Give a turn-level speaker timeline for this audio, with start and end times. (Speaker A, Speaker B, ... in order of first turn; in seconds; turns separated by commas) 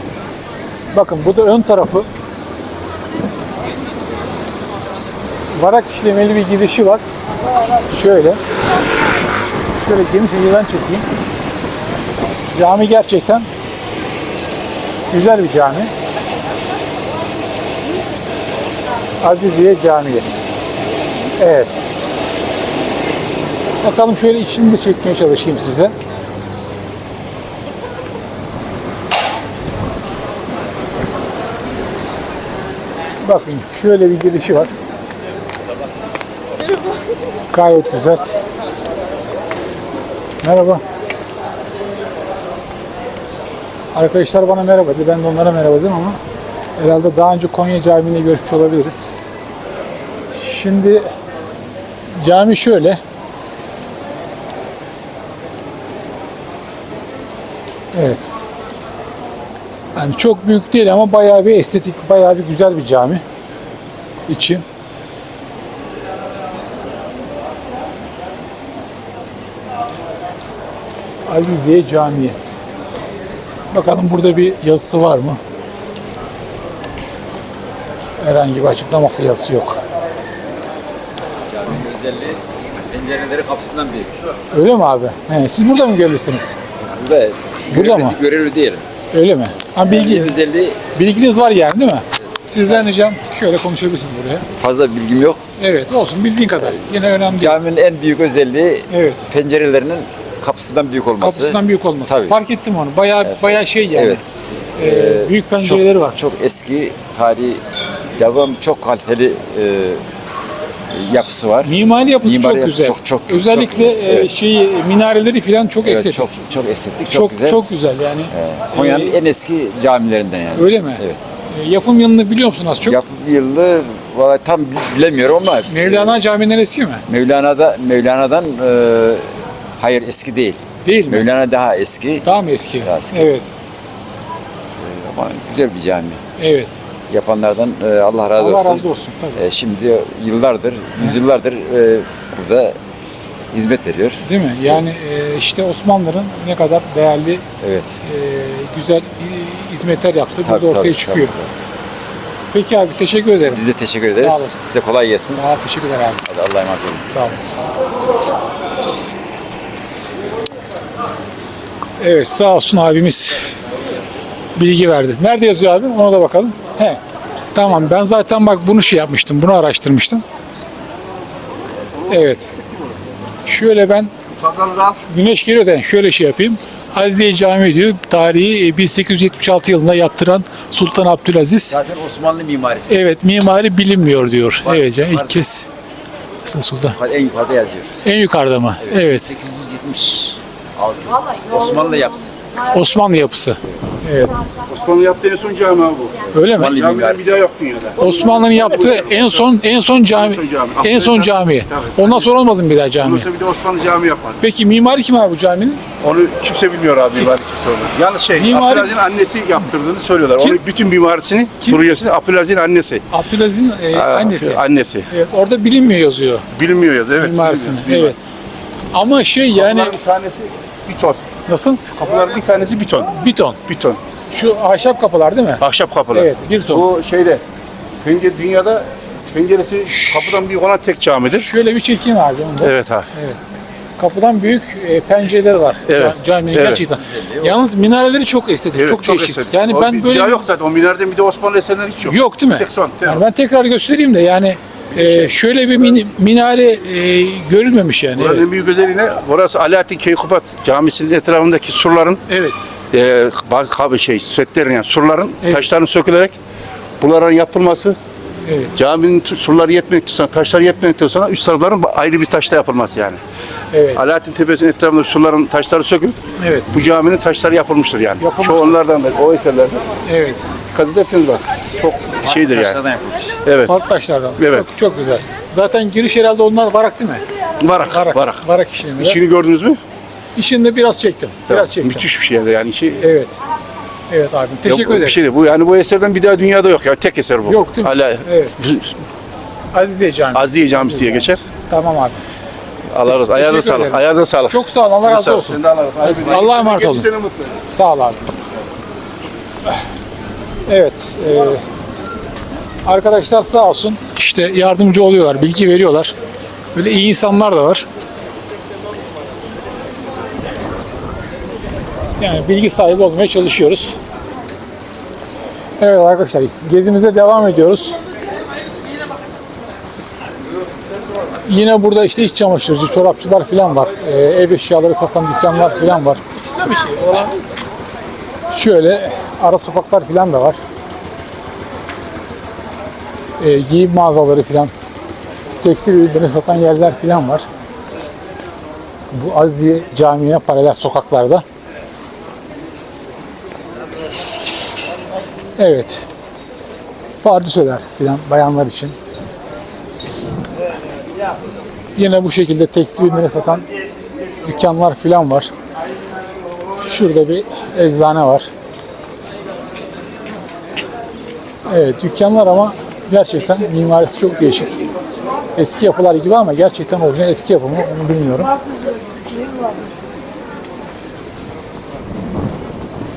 Speaker A: 0.9-2.1, Speaker A: 5.5-7.0, Speaker A: 7.9-8.4, Speaker A: 9.8-11.0, Speaker A: 12.5-13.5, Speaker A: 15.1-15.9, Speaker A: 19.2-20.3, Speaker A: 21.4-21.7, Speaker A: 23.8-25.9, Speaker A: 33.2-34.7, Speaker A: 37.5-38.2, Speaker A: 40.4-40.8, Speaker A: 43.9-46.2, Speaker A: 46.8-49.1, Speaker A: 50.4-51.1, Speaker A: 52.2-53.0, Speaker A: 57.9-58.3, Speaker A: 60.0-63.2, Speaker A: 64.3-64.6, Speaker A: 71.3-72.4, Speaker A: 73.7-75.4, Speaker A: 78.2-79.8, Speaker B: 81.5-84.1, Speaker A: 84.5-86.5, Speaker B: 86.8-88.8, Speaker A: 87.7-88.2, Speaker A: 89.1-90.3, Speaker B: 89.8-90.8, Speaker A: 90.9-94.5, Speaker B: 94.6-95.4, Speaker A: 95.6-97.6, Speaker B: 96.6-102.4, Speaker A: 98.9-99.3, Speaker A: 101.2-106.2, Speaker B: 103.2-104.2, Speaker B: 104.8-107.6, Speaker B: 108.2-110.0, Speaker B: 110.9-114.3, Speaker A: 111.6-116.3, Speaker B: 115.8-117.6, Speaker A: 117.1-119.2, Speaker B: 118.3-121.2, Speaker A: 120.5-123.0, Speaker B: 122.8-126.2, Speaker A: 125.7-127.0, Speaker B: 127.1-129.3, Speaker B: 129.8-132.2, Speaker A: 130.8-131.3, Speaker A: 132.2-133.5, Speaker B: 132.8-133.3, Speaker B: 134.8-136.2, Speaker A: 136.4-136.7, Speaker B: 137.1-142.8, Speaker A: 138.4-139.4, Speaker B: 143.5-144.2, Speaker A: 144.2-147.4, Speaker B: 147.6-148.0, Speaker A: 148.0-151.3, Speaker B: 150.4-151.5, Speaker A: 152.5-154.7, Speaker B: 153.5-155.4, Speaker A: 155.3-156.2, Speaker B: 156.3-157.1, Speaker A: 157.1-157.4, Speaker A: 162.0-163.4, Speaker A: 164.6-167.0, Speaker A: 167.5-170.2, Speaker A: 172.1-172.5, Speaker A: 173.5-174.1, Speaker C: 174.4-175.0, Speaker A: 175.1-181.8, Speaker B: 181.7-183.0, Speaker A: 182.9-185.7, Speaker B: 184.7-185.4, Speaker A: 186.4-187.0, Speaker B: 187.0-187.9, Speaker A: 188.0-189.3, Speaker B: 188.9-192.3, Speaker A: 192.7-194.4, Speaker C: 194.7-199.4, Speaker A: 196.3-196.8, Speaker B: 196.5-197.4, Speaker A: 198.0-203.3, Speaker C: 200.1-202.3, Speaker C: 203.0-204.4, Speaker A: 204.4-205.8, Speaker C: 206.0-213.0, Speaker A: 208.4-208.9, Speaker A: 213.1-216.5, Speaker C: 213.9-215.1, Speaker C: 216.5-218.1, Speaker A: 217.2-218.2, Speaker A: 218.9-220.0, Speaker C: 219.5-221.2, Speaker A: 221.5-221.9, Speaker C: 221.9-223.1, Speaker A: 223.1-223.6, Speaker C: 223.7-224.0, Speaker A: 224.3-226.8, Speaker C: 225.6-227.4, Speaker C: 228.0-231.5, Speaker A: 229.9-230.4, Speaker A: 231.3-233.4, Speaker C: 232.6-233.1, Speaker A: 234.0-240.4, Speaker C: 235.9-236.8, Speaker B: 236.9-237.6, Speaker C: 238.8-243.2, Speaker A: 242.0-248.5, Speaker C: 248.1-252.2, Speaker A: 252.3-252.6, Speaker C: 252.9-256.4, Speaker C: 257.0-258.0, Speaker A: 258.4-258.7, Speaker C: 258.8-263.2, Speaker A: 263.7-264.0, Speaker C: 264.0-266.1, Speaker A: 266.4-266.7, Speaker C: 266.7-269.9, Speaker A: 268.2-268.8, Speaker A: 270.0-270.4, Speaker C: 270.7-272.8, Speaker B: 272.3-273.4, Speaker C: 273.4-273.8, Speaker A: 273.7-277.2, Speaker C: 274.4-274.7, Speaker C: 277.6-278.4, Speaker A: 277.8-279.2, Speaker C: 279.0-279.8, Speaker A: 280.4-282.1, Speaker C: 281.5-283.0, Speaker A: 283.0-283.3, Speaker A: 284.1-285.2, Speaker C: 284.7-288.9, Speaker A: 287.5-288.6, Speaker A: 289.7-292.2, Speaker C: 290.3-291.4, Speaker C: 292.9-297.6, Speaker A: 293.1-297.1, Speaker A: 297.7-298.3, Speaker A: 300.7-301.6, Speaker A: 302.9-306.1, Speaker A: 306.8-307.9, Speaker A: 312.2-314.0, Speaker A: 315.8-318.0, Speaker A: 321.4-327.3, Speaker A: 328.5-330.6, Speaker A: 333.4-334.7, Speaker A: 335.6-337.4, Speaker A: 339.1-341.4, Speaker A: 345.6-346.1, Speaker A: 347.2-348.9, Speaker A: 352.0-353.6, Speaker A: 354.4-355.5, Speaker A: 356.8-358.5, Speaker A: 361.7-364.8, Speaker A: 365.6-368.5